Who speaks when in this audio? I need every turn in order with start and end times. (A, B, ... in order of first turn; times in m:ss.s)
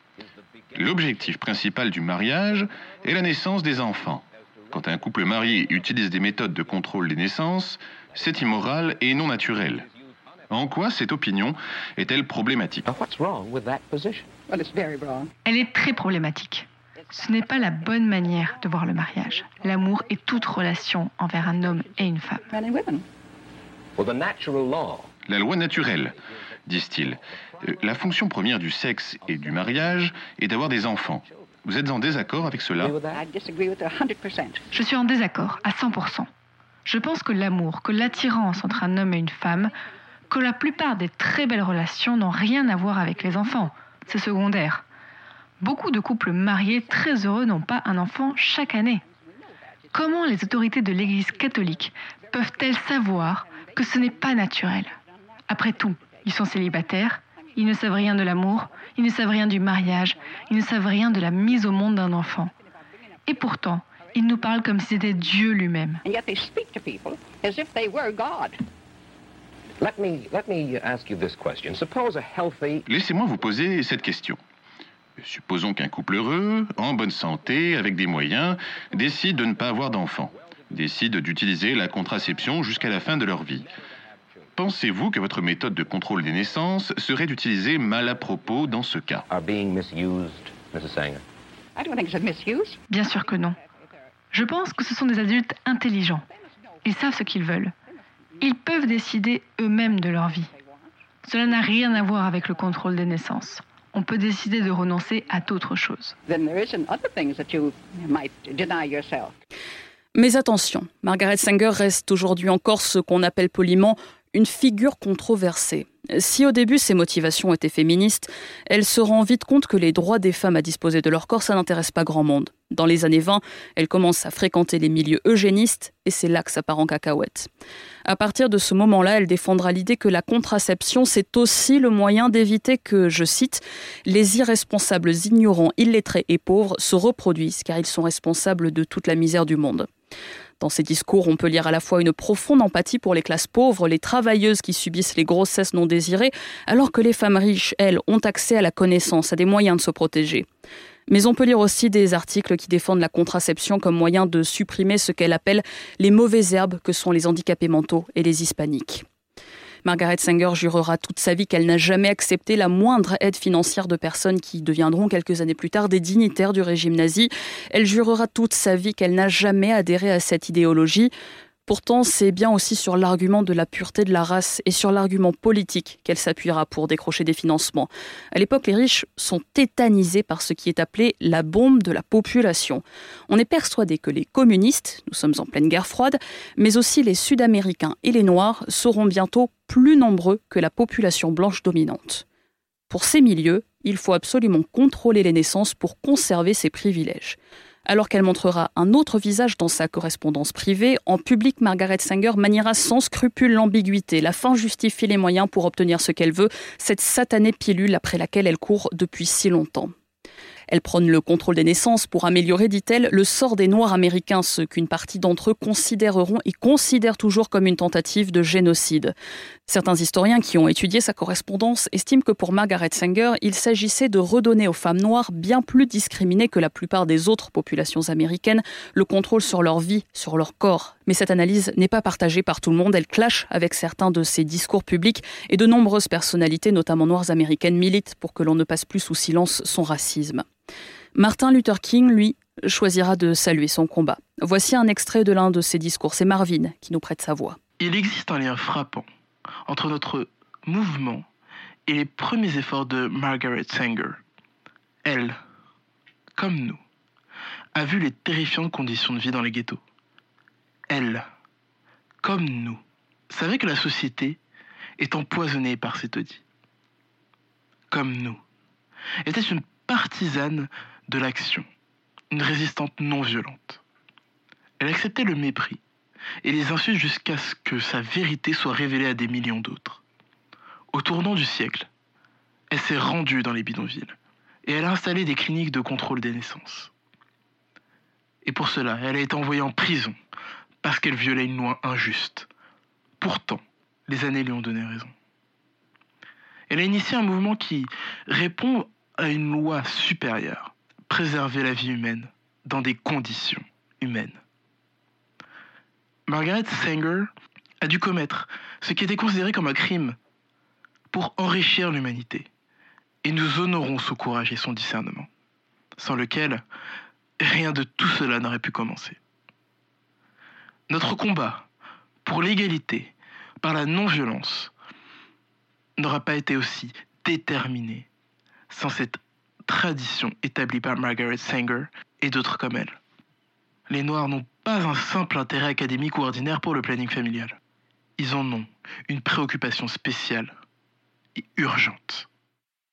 0:00.7-0:09.9 A
0:10.5-0:12.8 A
0:12.8-0:14.3 B
0:14.5-0:15.3 C
0:15.4-0:22.4 D
0:22.5-0:23.0 C
0:24.0-0:25.1 B
0:25.2-0:26.1 A
0:26.6-0:32.9 A
0:32.8-0:33.2 B
0:33.1-0:34.7 C
0:34.7-0:36.3 D
0:36.8-0:39.7 D
0:40.3-0:44.8 D
0:45.6-0:49.0 D
0:49.9-0:54.9 D
0:55.5-1:02.5 D
1:03.2-1:06.0 D
1:06.0-1:08.6 C
1:09.8-1:12.8 B
1:12.8-1:14.4 A
1:15.2-1:23.7 A
1:24.6-1:29.2 A
1:29.3-1:31.2 B
1:31.8-1:32.8 C
1:32.9-1:33.6 D
1:34.3-1:36.2 D
1:36.8-1:37.7 D
1:38.4-1:40.5 D
1:41.2-1:46.1 D
1:46.3-1:49.3 C
1:50.1-2:07.5 E
2:08.0-2:19.9 E
2:20.6-2:30.5 E
2:31.1-2:39.0 E
2:39.8-2:51.1 E
2:51.6-3:12.2 E
3:12.9-3:29.9 E
3:30.7-3:39.1 E
3:39.7-4:00.4 E
4:01.2-4:07.6 E
4:07.8-4:09.0 F
4:09.7-4:11.2 F
4:11.9-4:14.2 F
4:15.0-4:15.4 F
4:16.4-4:16.8 F
4:17.7-4:19.8 F
4:20.9-4:21.3 F
4:22.2-4:24.4 F
4:25.0-4:26.4 F
4:27.9-4:28.4 F
4:29.2-4:31.6 F
4:32.3-4:33.8 F
4:34.8-4:35.8 F
4:36.4-4:40.0 F
4:40.9-4:41.9 F
4:42.7-4:44.1 F
4:44.6-4:46.9 F
4:48.4-4:50.2 F
4:50.8-4:52.5 F
4:53.2-4:55.1 F
4:56.7-5:04.4 F
5:06.3-5:07.3 F
5:07.8-5:10.2 F
5:11.1-5:12.5 F
5:13.2-5:15.3 F
5:16.0-5:16.6 F
5:17.4-5:19.2 F
5:20.9-5:21.6 F
5:22.2-5:24.7 F
5:26.0-5:28.0 F
5:28.7-5:33.0 F
5:33.9-5:37.6 F
5:38.2-5:40.5 F
5:41.4-5:42.2 F